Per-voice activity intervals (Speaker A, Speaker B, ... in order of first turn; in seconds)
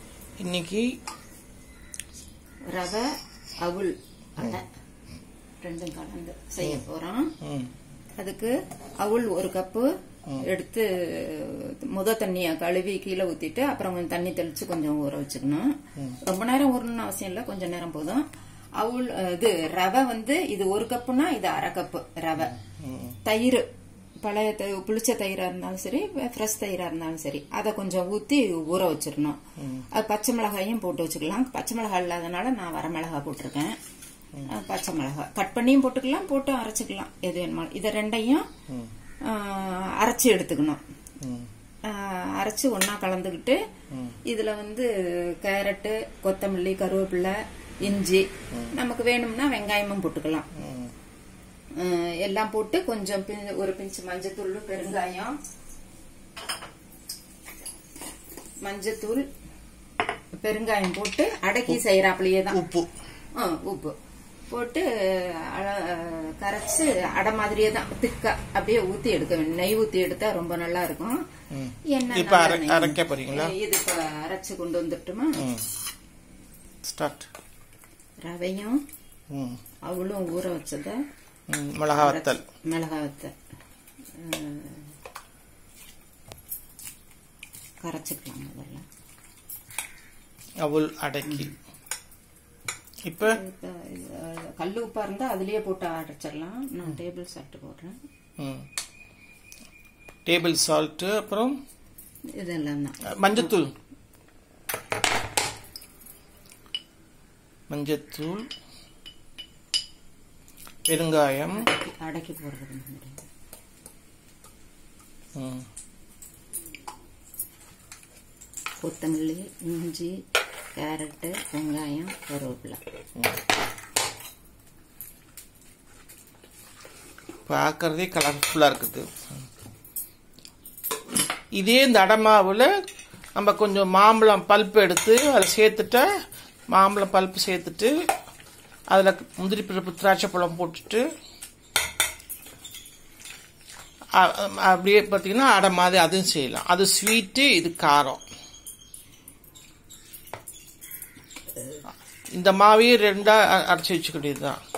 Speaker A: 0.4-0.8, 7.4-7.7, 22.5-23.2, 29.6-29.9, 41.2-41.5, 43.9-44.2, 50.5-50.9, 62.5-62.9, 71.5-73.5, 75.4-75.7, 76.8-77.3, 79.3-79.6, 81.5-82.4, 90.6-91.5, 93.0-93.4, 98.4-98.6, 100.2-101.5, 103.2-103.7, 107.7-108.4, 110.9-111.6, 115.3-115.7, 127.5-129.1, 131.6-132.7, 133.3-136.0, 136.7-137.9, 138.9-141.0, 144.1-148.2, 152.3-154.6
Speaker B: 2.7-3.0, 3.6-4.7, 5.6-7.3, 8.2-15.7, 16.2-18.2, 18.8-22.5, 23.2-23.6, 24.2-29.4, 29.9-33.8, 34.5-38.4, 39.2-40.8, 41.9-43.6, 44.3-44.9, 45.4-50.5, 51.8-55.4, 58.6-59.2, 60.4-62.6, 63.4-63.9, 64.5-71.2, 71.9-75.4, 78.2-78.8, 79.9-81.0, 81.9-83.3, 84.2-84.9, 87.8-88.8, 91.2-91.5, 93.2-98.0, 102.4-103.5, 111.5-113.3, 118.8-120.1, 120.8-122.8